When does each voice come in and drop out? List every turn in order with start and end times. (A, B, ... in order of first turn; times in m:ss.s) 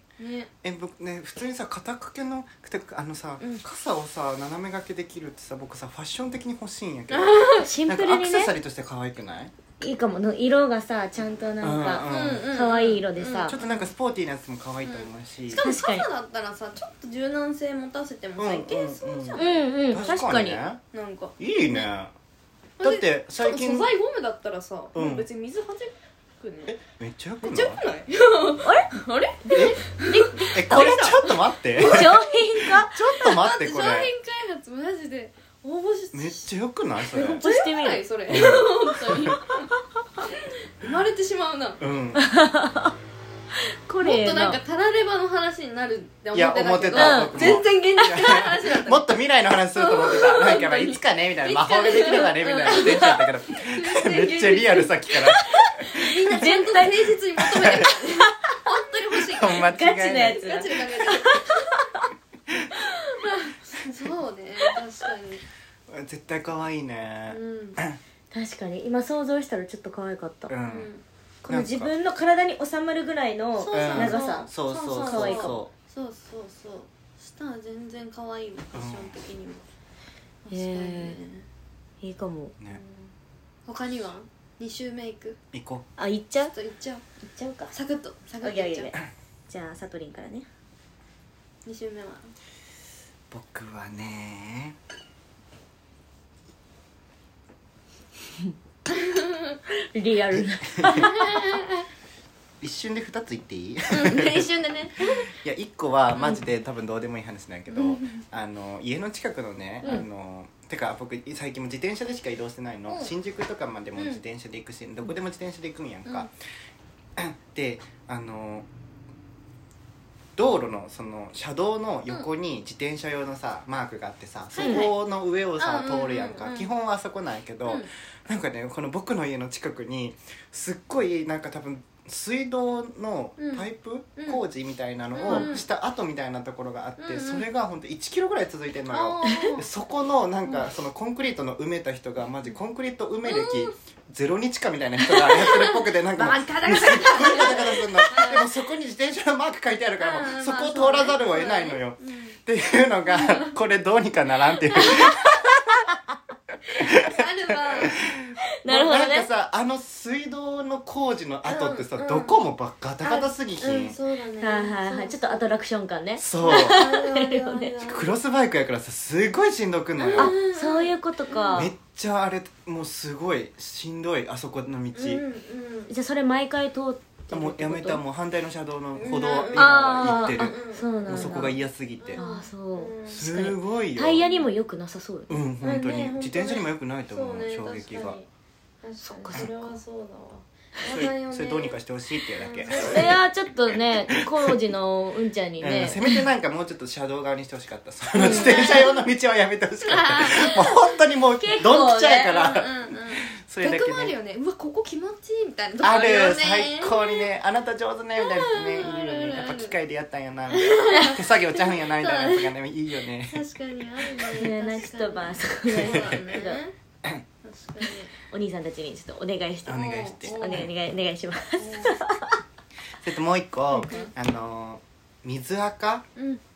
0:00.2-0:00.5 A
0:00.6-0:09.5 B
0:07.1-0:07.7 A
0:07.6-0:08.5 C
0:09.8-0:13.6 C
0:11.6-0:12.5 B
0:12.1-0:13.9 A
0:13.4-0:15.6 B
0:14.8-0:19.7 A
0:15.6-0:16.1 C
0:18.4-0:20.8 B
0:19.4-0:20.6 C
0:20.9-0:21.9 A
0:21.4-0:22.1 B
0:22.8-0:26.8 A
0:22.8-0:23.9 B
0:25.0-0:25.3 B
0:26.7-0:27.8 B
0:27.4-0:31.2 A
0:28.6-0:28.9 C
0:29.4-0:31.2 C
0:29.5-0:29.8 B
0:30.5-0:32.2 B
0:31.7-0:32.3 A
0:31.8-0:33.0 C
0:32.8-0:34.1 B
0:33.2-0:36.5 A
0:36.1-0:37.4 B
0:37.1-0:39.7 A
0:37.1-0:38.6 C
0:38.3-0:39.4 B
0:39.2-0:39.5 C
0:40.2-0:41.8 A
0:41.8-0:42.2 B
0:42.2-0:42.9 C
0:43.6-0:44.6 C
0:44.0-0:49.1 A
0:46.3-0:56.1 B
0:46.9-0:47.6 C
0:49.8-0:55.3 A
0:55.7-0:57.0 C
0:55.9-1:01.8 A
0:57.4-0:58.0 B
0:59.2-1:00.4 B
0:59.6-1:02.1 C
1:02.9-1:05.4 A
1:05.9-1:08.0 B
1:07.3-1:07.8 A
1:08.3-1:10.5 C
1:10.5-1:10.9 B
1:10.7-1:11.0 A
1:11.4-1:14.5 C
1:11.5-1:11.9 B
1:13.6-1:19.6 A
1:13.7-1:15.7 B
1:15.0-1:15.6 C
1:18.7-1:19.2 B
1:20.4-1:21.5 A
1:20.5-1:21.2 C
1:22.0-1:22.5 C
1:22.7-1:23.1 A
1:23.7-1:25.4 A
1:25.5-1:25.9 B
1:26.0-1:26.5 C
1:26.5-1:27.0 A
1:27.2-1:27.8 C
1:27.7-1:28.9 A
1:28.4-1:30.5 C
1:31.6-1:32.3 A
1:33.3-1:34.8 B
1:38.9-1:39.6 A
1:39.9-1:41.6 C
1:40.3-1:41.1 B
1:40.9-1:41.8 A
1:42.6-1:44.5 B
1:43.9-1:45.3 A
1:45.0-1:56.3 B
1:46.2-1:46.4 A
1:47.7-1:48.2 A
1:57.2-1:58.7 B
2:00.4-2:36.0 B
2:04.6-2:05.0 A
2:04.6-2:04.9 C
2:05.6-2:06.7 A
2:13.4-2:14.4 A
2:15.2-2:15.6 A
2:15.3-2:15.5 C
2:17.0-2:17.5 A
2:18.9-2:19.7 A
2:23.2-2:23.7 A
2:25.0-2:28.5 A
2:30.0-2:32.4 A
2:33.1-2:33.6 A
2:34.7-2:35.2 A
2:36.7-2:44.0 B
2:37.0-2:38.0 A
2:38.6-2:39.3 C
2:41.4-2:42.4 A
2:43.0-2:45.5 A
2:44.4-2:47.7 C
2:46.2-2:46.9 B
2:46.4-2:48.1 A
2:47.8-2:50.4 B
2:50.0-2:51.7 A
2:50.2-2:51.7 C
2:51.6-2:55.2 B
2:54.9-2:55.9 A
2:55.9-2:58.0 C
2:57.3-3:02.2 B
2:59.0-3:01.4 A
2:59.6-3:01.6 C
3:02.0-3:03.3 A
3:02.2-3:05.4 C
3:03.1-3:04.3 B
3:04.2-3:04.5 A
3:05.3-3:08.2 B
3:05.6-3:08.3 A
3:08.8-3:11.8 A
3:09.0-3:09.7 C
3:10.9-3:13.2 B
3:12.4-3:13.2 A
3:12.7-3:16.0 C
3:13.7-3:14.6 B
3:15.6-3:24.1 B
3:18.2-3:18.8 C
3:18.2-3:19.0 A
3:19.8-3:20.9 A
3:21.4-3:22.4 C
3:22.2-3:27.3 A
3:25.8-3:33.4 B
3:28.2-3:29.8 A
3:30.5-3:32.6 A
3:33.3-3:36.7 A
3:34.4-3:36.6 C
3:35.8-3:36.2 B
3:37.4-3:38.1 A
3:38.3-3:42.4 C
3:39.7-3:40.7 B
3:39.7-3:40.7 A
3:41.6-3:42.0 A
3:43.0-3:46.0 B
3:43.7-3:44.1 A
3:46.2-3:46.4 A